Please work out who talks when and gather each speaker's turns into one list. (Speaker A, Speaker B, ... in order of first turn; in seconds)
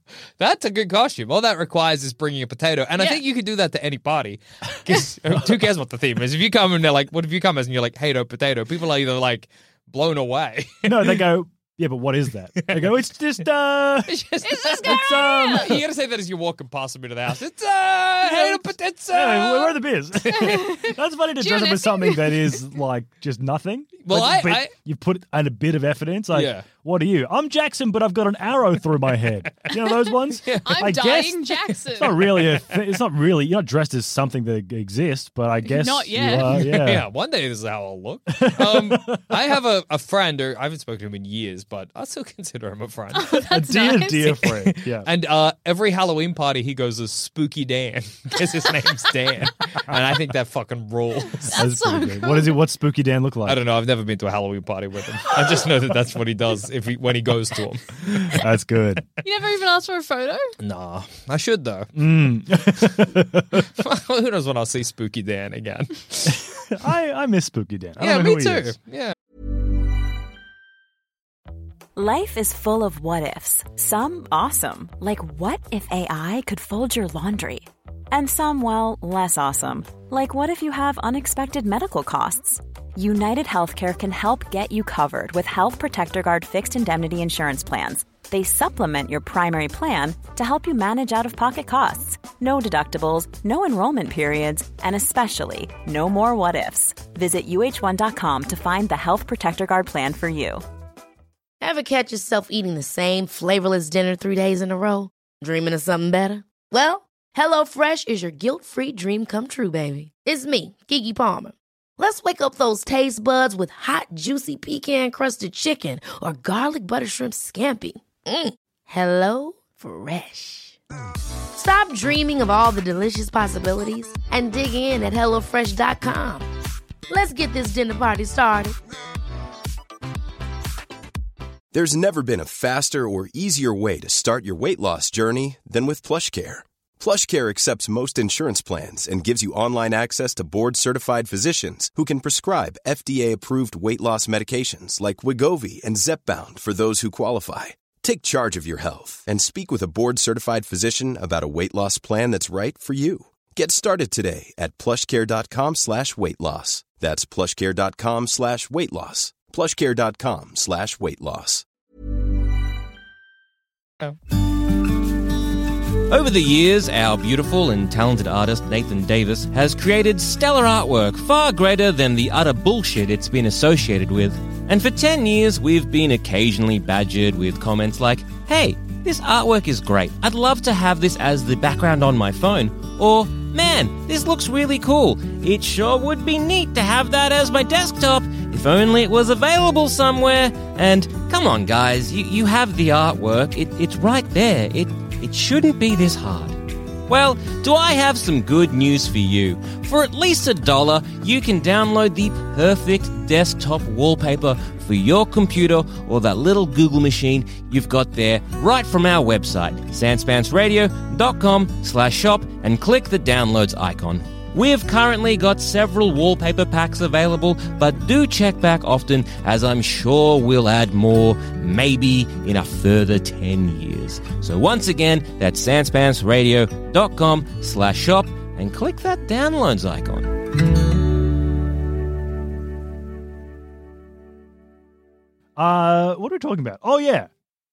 Speaker A: 0.4-11.2, 12.6-13.0, 14.1-19.8, 24.1-24.7, 26.3-26.7, 30.4-30.9, 36.4-43.5, 44.3-51.5, 53.5-58.3, 60.6-61.9, 63.6-66.4, 68.0-69.1
Speaker B: 10.8-15.9, 18.2-37.1, 38.3-39.4, 43.5-45.1, 51.5-53.6, 58.3-59.1, 62.0-63.7, 66.3-68.8, 235.6-237.3
Speaker C: 14.4-15.8, 20.2-22.6, 30.6-32.3, 35.6-36.6, 43.1-44.4, 51.4-52.6, 59.2-60.5
Speaker D: 72.0-100.6
Speaker E: 101.6-120.8, 121.5-126.5, 127.1-128.8
Speaker F: 131.7-161.7
Speaker G: 166.1-230.6